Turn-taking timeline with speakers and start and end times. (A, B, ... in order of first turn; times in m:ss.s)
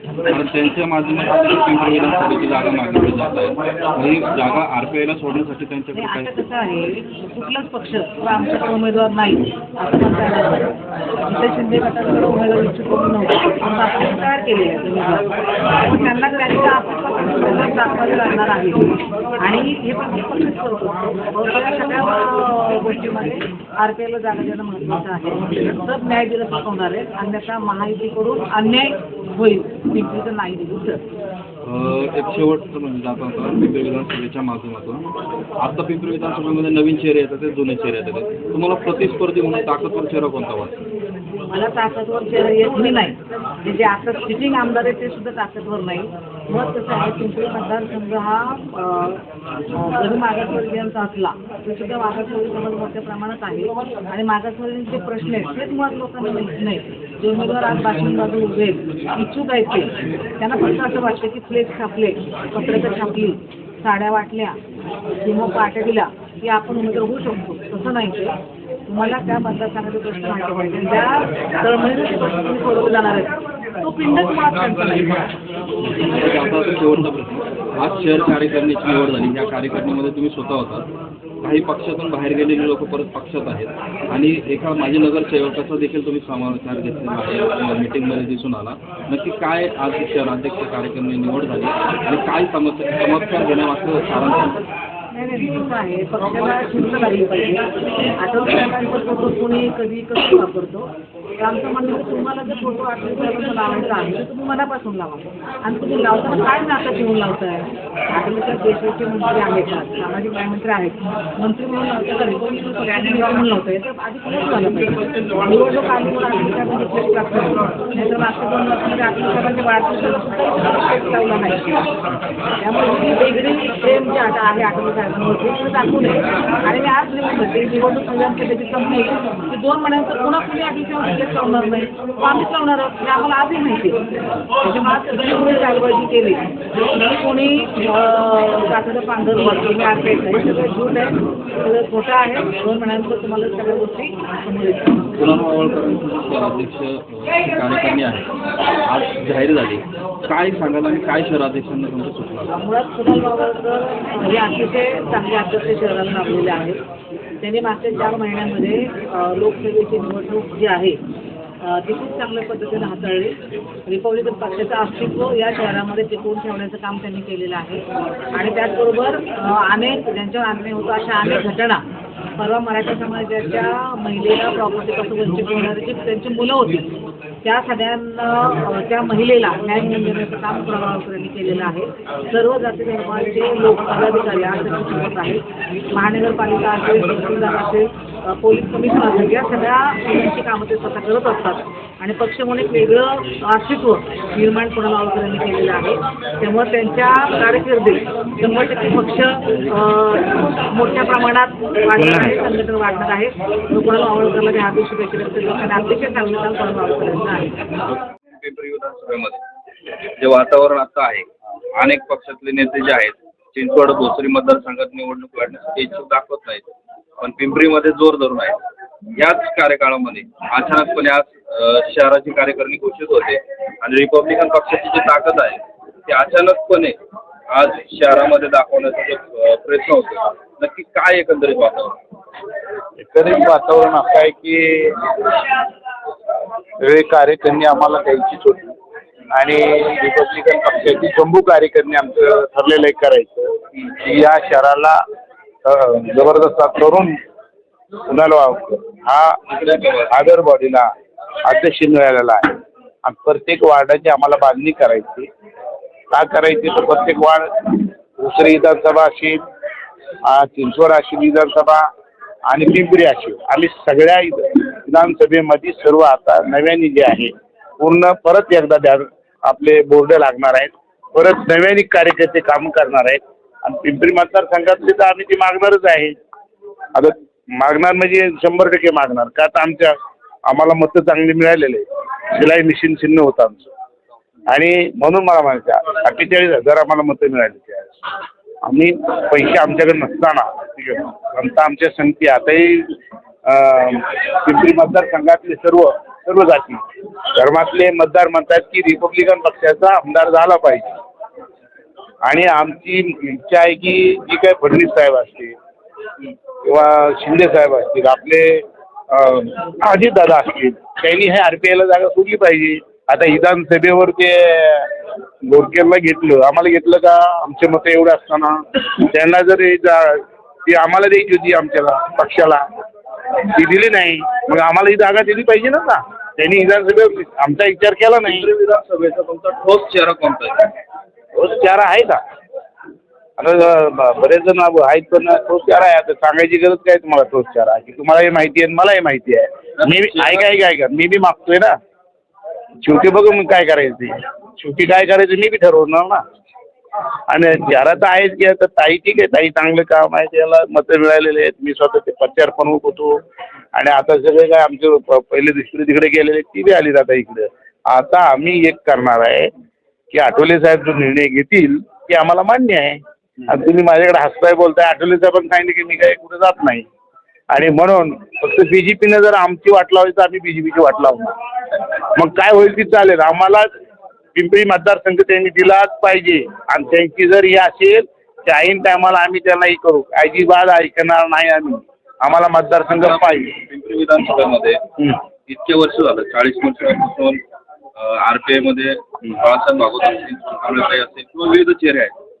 0:00.2-0:06.4 A
0:05.9-0:31.0 B
0:31.6-0:35.1 A
0:35.6-0:40.8 A
0:41.5-1:04.6 B
1:05.1-1:15.3 B
1:15.8-1:20.9 A
1:21.4-1:34.6 A
1:35.1-2:01.9 B
2:02.6-2:14.0 B
2:14.6-2:25.0 B
2:25.2-2:28.3 A
2:28.8-2:32.6 A
2:32.5-2:36.8 B
2:37.4-2:41.0 B
2:41.6-2:51.8 B
2:52.4-2:56.9 B
2:57.4-3:27.7 B
3:22.0-3:22.4 C
3:27.9-3:29.4 A
3:30.2-3:38.6 A
3:39.1-3:46.9 A
3:47.5-3:52.0 A
3:53.0-3:55.3 C
3:56.8-3:58.8 C
3:59.3-4:05.0 C
4:05.6-4:07.2 C
4:08.1-4:09.4 C
4:09.5-4:10.1 A
4:10.0-4:10.9 C
4:11.4-4:15.3 C
4:16.1-4:19.4 C
4:20.2-4:21.9 C
4:22.5-4:36.1 C
4:36.9-4:43.7 C
4:44.5-4:48.0 C
4:48.6-4:56.8 C
4:57.3-5:00.9 C
5:02.2-5:05.6 C
5:06.6-5:14.9 C
5:15.4-5:22.6 C
5:23.4-5:28.5 C
5:28.2-5:30.7 A
5:31.4-5:32.2 C
5:33.4-5:41.8 C
5:39.8-5:40.5 A
5:42.8-5:46.2 C
5:47.3-5:53.2 C
5:53.7-5:59.5 C
6:00.1-6:06.9 C
6:07.5-6:13.7 C
6:14.3-6:23.5 C
6:23.0-6:24.8 A
6:25.5-6:27.4 A
6:28.0-6:32.1 A